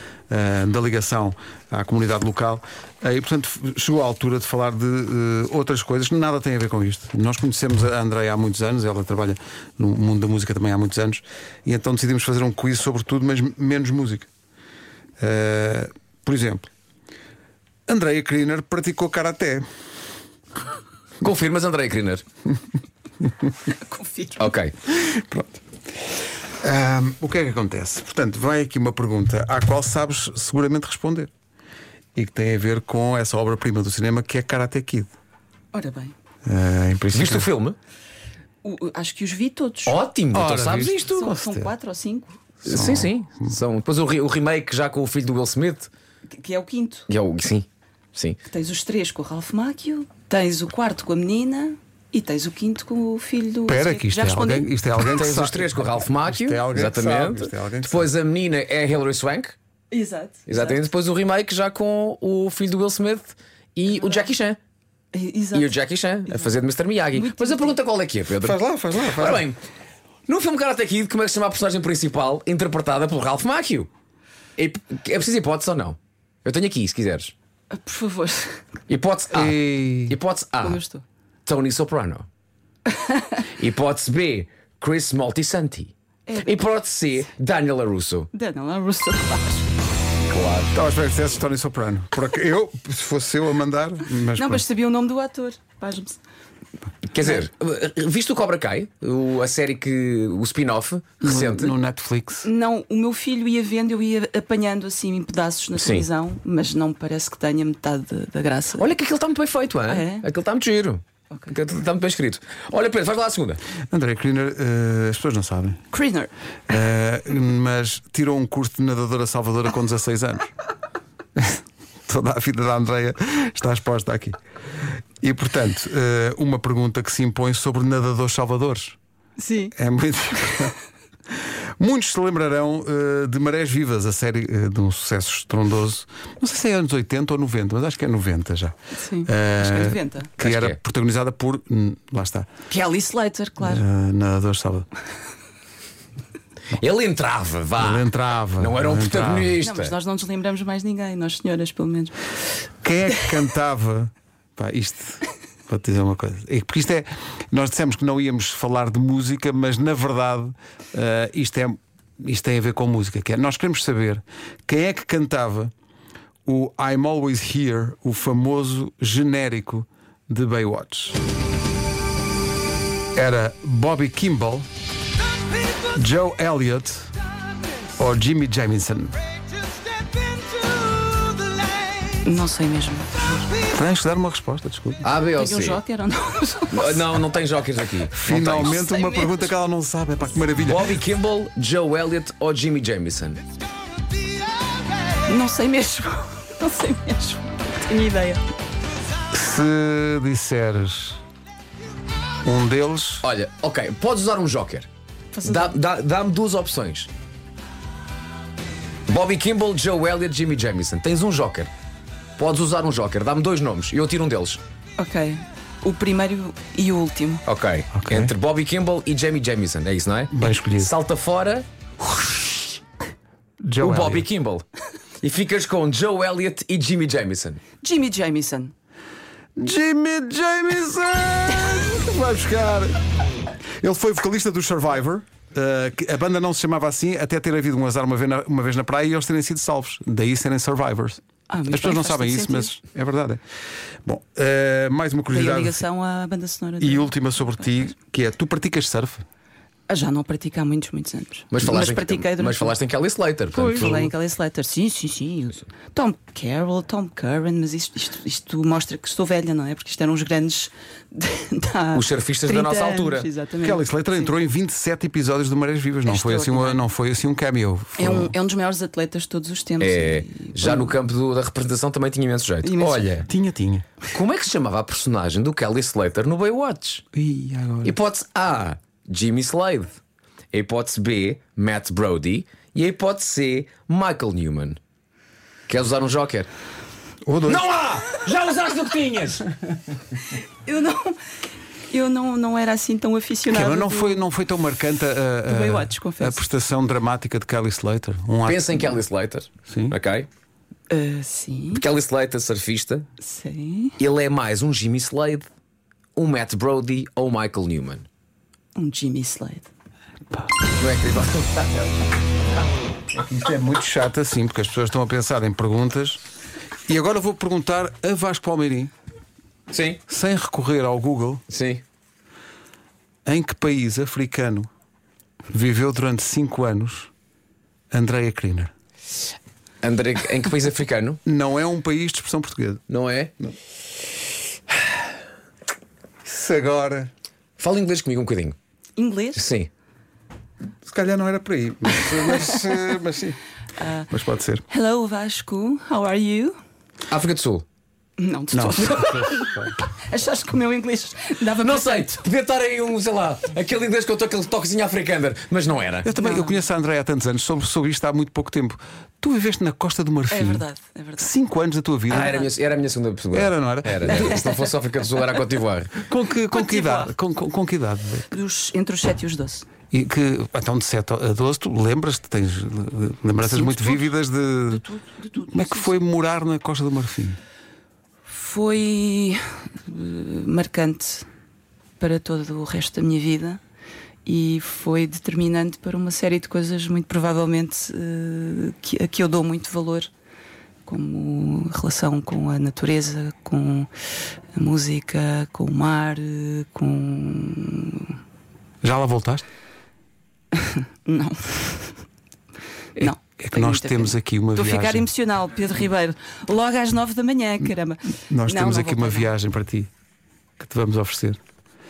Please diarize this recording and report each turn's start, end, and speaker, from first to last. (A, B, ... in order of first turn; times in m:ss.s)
0:00.3-0:14.3 A
0:15.2-0:16.7 A
0:17.9-0:19.6 A
0:21.2-0:22.2 B
0:23.7-0:24.5 C
0:24.4-0:24.7 B
0:24.9-0:25.6 A
0:26.6-0:31.3 A
0:32.2-0:35.1 A
0:35.7-0:36.1 C
0:36.4-0:37.5 A
0:37.1-0:37.8 B
0:38.6-0:40.0 C
0:39.8-0:41.1 B
0:40.3-0:41.7 A
0:41.0-0:42.4 C
0:42.6-0:45.9 B
0:42.6-0:43.5 A
0:46.3-0:47.1 C
0:47.1-0:48.4 B
0:48.4-0:54.7 C
0:53.7-0:58.1 A
0:55.0-0:59.6 B
0:59.9-1:00.8 C
1:00.5-1:04.6 B
1:05.1-1:06.5 C
1:05.5-1:09.6 B
1:07.1-1:07.8 C
1:08.4-1:09.4 A
1:10.3-1:13.9 B
1:14.6-1:17.3 B
1:17.7-1:18.6 C
1:18.9-1:20.8 B
1:19.3-1:20.2 A
1:20.6-1:21.0 C
1:21.4-1:22.2 B
1:22.9-1:23.4 C
1:23.6-1:28.3 B
1:26.3-1:26.6 C
1:28.3-1:29.7 C
1:30.3-1:30.7 B
1:30.7-1:34.6 A
1:34.3-1:36.2 C
1:37.1-1:41.8 B
1:41.2-1:42.5 A
1:42.4-1:48.9 C
1:45.7-1:46.0 B
1:48.7-1:53.6 B
1:49.9-1:50.2 C
1:53.9-1:55.8 A
1:55.9-1:56.3 C
1:56.7-2:00.5 A
2:01.4-2:04.4 A
2:05.2-2:09.0 A
2:09.4-2:09.7 C
2:09.7-2:10.7 A
2:11.4-2:22.5 A
2:19.0-2:20.3 C
2:20.4-2:20.8 B
2:22.7-2:23.8 C
2:23.6-2:24.9 A
2:26.8-2:30.0 B
2:27.8-2:29.6 A
2:29.6-2:32.1 C
2:32.8-2:45.7 A
2:46.4-2:51.2 A
2:53.1-2:54.7 A
2:55.9-2:57.1 A
2:58.0-2:59.2 A
3:02.2-3:03.4 C
3:03.6-3:05.1 A
3:05.0-3:05.8 B
3:05.4-3:07.1 C
3:06.7-3:08.8 B
3:08.1-3:11.0 A
3:08.6-3:09.5 C
3:10.6-3:13.4 B
3:15.2-3:18.4 C
3:19.3-3:21.2 A
3:22.4-3:23.2 A
3:23.2-3:24.9 B
3:25.3-3:25.8 C
3:25.4-3:27.1 B
3:29.1-3:31.7 B
3:32.4-3:34.6 B
3:35.0-3:37.4 C
3:37.4-3:41.6 B
3:37.9-3:38.3 A
3:40.3-3:40.9 A
3:43.6-3:44.2 A
3:43.8-3:44.6 B
3:45.2-3:47.6 B
3:47.8-3:48.7 C
3:49.6-3:53.0 A
3:53.8-4:03.4 A
4:01.5-4:02.7 C
4:04.0-4:05.8 A
4:05.3-4:07.8 C
4:06.8-4:09.2 A
4:09.9-4:12.7 C
4:11.5-4:14.1 B
4:13.5-4:24.3 C
4:13.7-4:14.1 A
4:21.9-4:23.3 B
4:23.6-4:28.3 A
4:26.0-4:26.8 C
4:28.0-4:31.0 C
4:29.8-4:33.3 B
4:32.6-4:33.3 C
4:33.3-4:33.9 A
4:34.1-4:37.0 B
4:37.1-4:37.9 A
4:37.8-4:40.0 B
4:40.5-4:44.8 B
4:45.7-4:46.5 B
4:47.2-4:47.7 A
4:47.4-4:49.4 B
4:50.3-4:51.2 C
4:51.9-4:54.2 C
4:53.5-4:59.0 A
4:55.4-4:56.4 C
4:58.4-5:00.3 B
4:59.7-5:00.0 A
5:00.9-5:01.8 C
5:01.7-5:03.1 B
5:03.2-5:04.0 C
5:04.0-5:05.5 B
5:06.2-5:08.0 B
5:08.8-5:09.7 C
5:10.7-5:11.9 B
5:13.1-5:16.2 A
5:16.9-5:18.9 A
5:19.7-5:20.0 B
5:20.1-5:21.4 A
5:21.5-5:21.8 B
5:23.2-5:24.7 A
5:25.5-5:27.1 A
5:27.9-5:28.7 A
5:29.8-5:31.2 B
5:31.2-5:32.8 A
5:32.9-5:33.3 B
5:36.2-5:37.1 A
5:37.6-5:38.5 B
5:39.0-5:39.4 C
5:39.3-5:39.7 B
5:40.8-5:43.4 A
5:42.0-5:42.8 C
5:43.8-5:44.1 C
5:44.1-5:44.6 A
5:44.7-5:46.6 C
5:47.1-5:47.6 B
5:48.2-5:52.2 C
5:48.5-5:49.8 A
5:51.6-5:56.1 B
5:56.0-6:00.6 A
5:56.2-5:56.6 C
6:00.3-6:01.3 C
6:01.2-6:02.4 A
6:02.1-6:02.5 C
6:02.1-6:06.0 B
6:03.3-6:04.4 A
6:04.1-6:05.2 C
6:06.0-6:08.3 A
6:06.5-6:07.1 C
6:08.3-6:09.6 C
6:09.9-6:14.8 A
6:13.4-6:14.1 C
6:14.7-6:15.9 C
6:15.4-6:17.4 A
6:18.3-6:21.3 C
6:22.0-6:23.6 C
6:24.2-6:30.1 C
6:30.9-6:33.9 C
6:34.5-6:38.2 C
6:38.8-6:39.4 A
6:40.5-6:42.0 C
6:43.0-6:49.3 C
6:43.0-6:45.1 A
6:48.3-6:49.9 A
6:50.6-6:51.4 A